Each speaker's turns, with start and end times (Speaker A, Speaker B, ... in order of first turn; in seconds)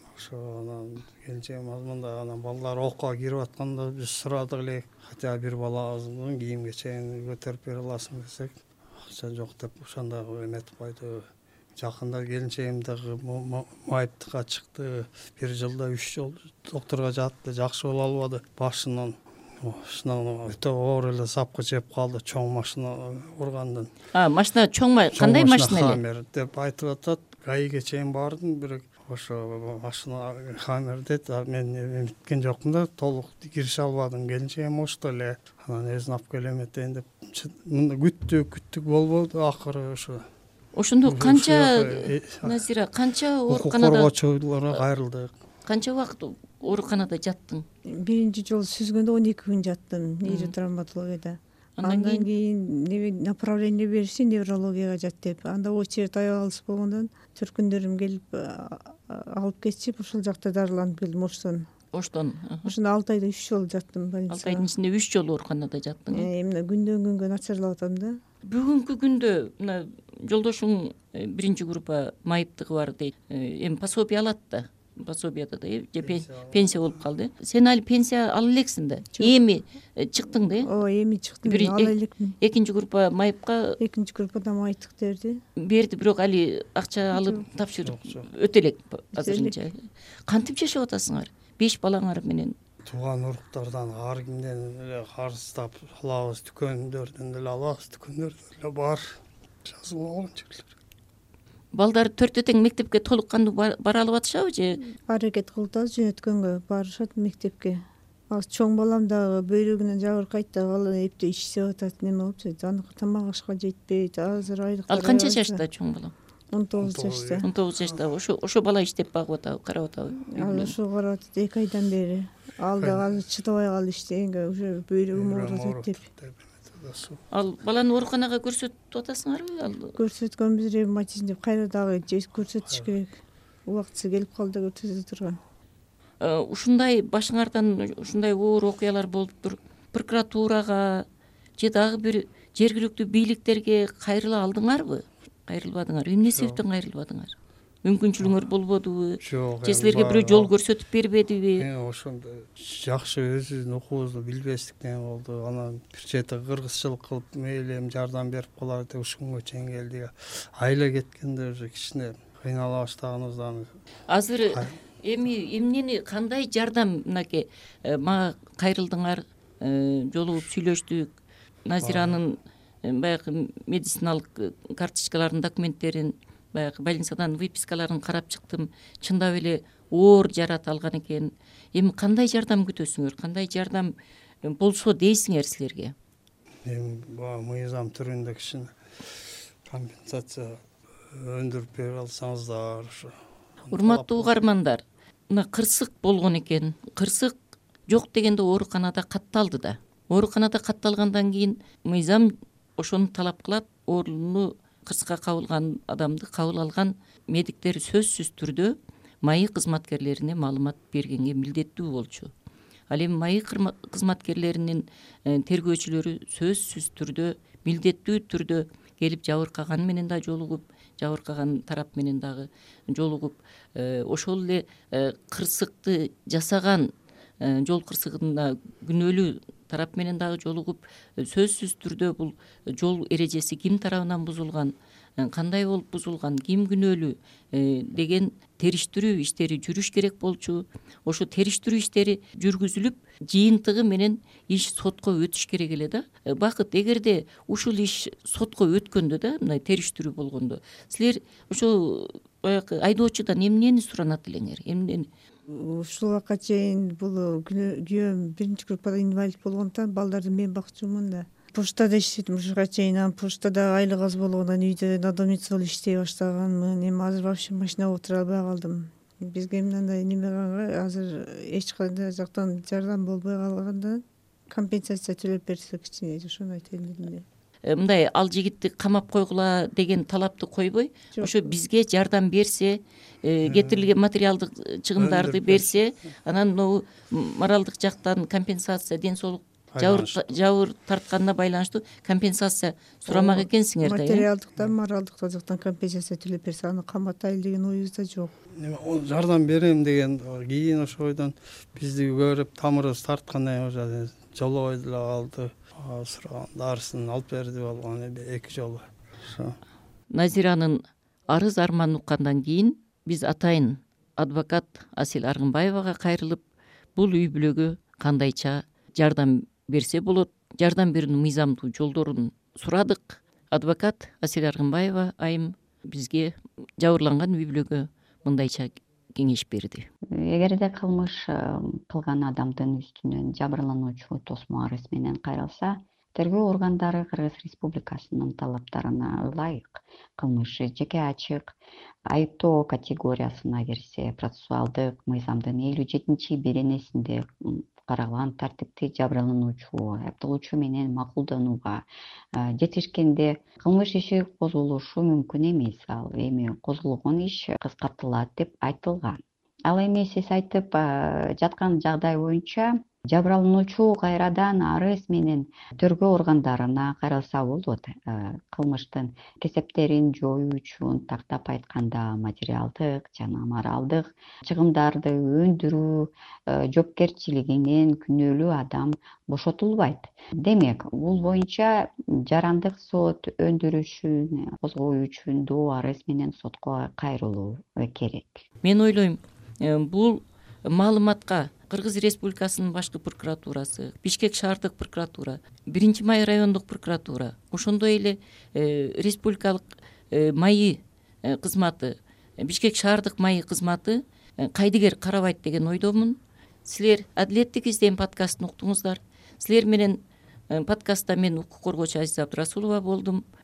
Speaker A: 0.1-23.9, 25.1-40.3, 41.0-42.6, 43.5-45.3, 76.0-77.0, 87.8-88.2, 92.9-100.7, 116.8-118.0, 125.1-127.2, 132.7-132.9, 146.3-146.6, 149.2-150.5, 151.6-163.7, 171.8-172.2, 186.7-188.7, 189.7-190.6, 191.1-193.2, 193.7-194.3, 283.4-283.9, 285.0-285.8, 289.8-290.2, 298.6-309.6
Speaker B: 24.1-26.0, 40.8-44.1, 45.7-47.6, 50.2-50.5, 51.8-52.3, 61.9-62.7, 64.3-66.3, 68.4-80.7, 81.4-83.8, 85.6-89.8, 90.3-92.5, 101.7-104.8, 114.9-116.1, 117.4-120.8, 127.3-129.9, 136.2-141.1, 141.6-151.7, 164.1-171.2, 171.7-185.9, 193.7-197.3, 197.9-212.3, 212.9-226.9, 227.4-255.1, 277.7-294.3, 310.1-316.4, 317.0-329.9, 388.6-413.2
Speaker C: 47.9-61.7, 62.6-64.7, 66.1-68.2, 80.6-82.4, 83.8-85.4, 87.2-87.4, 89.1-89.6, 105.1-115.6, 116.5-117.5, 120.4-126.0, 129.9-135.4, 255.5-277.2, 281.1-281.5, 293.1-298.3
Speaker D: 330.1-341.6, 342.1-388.4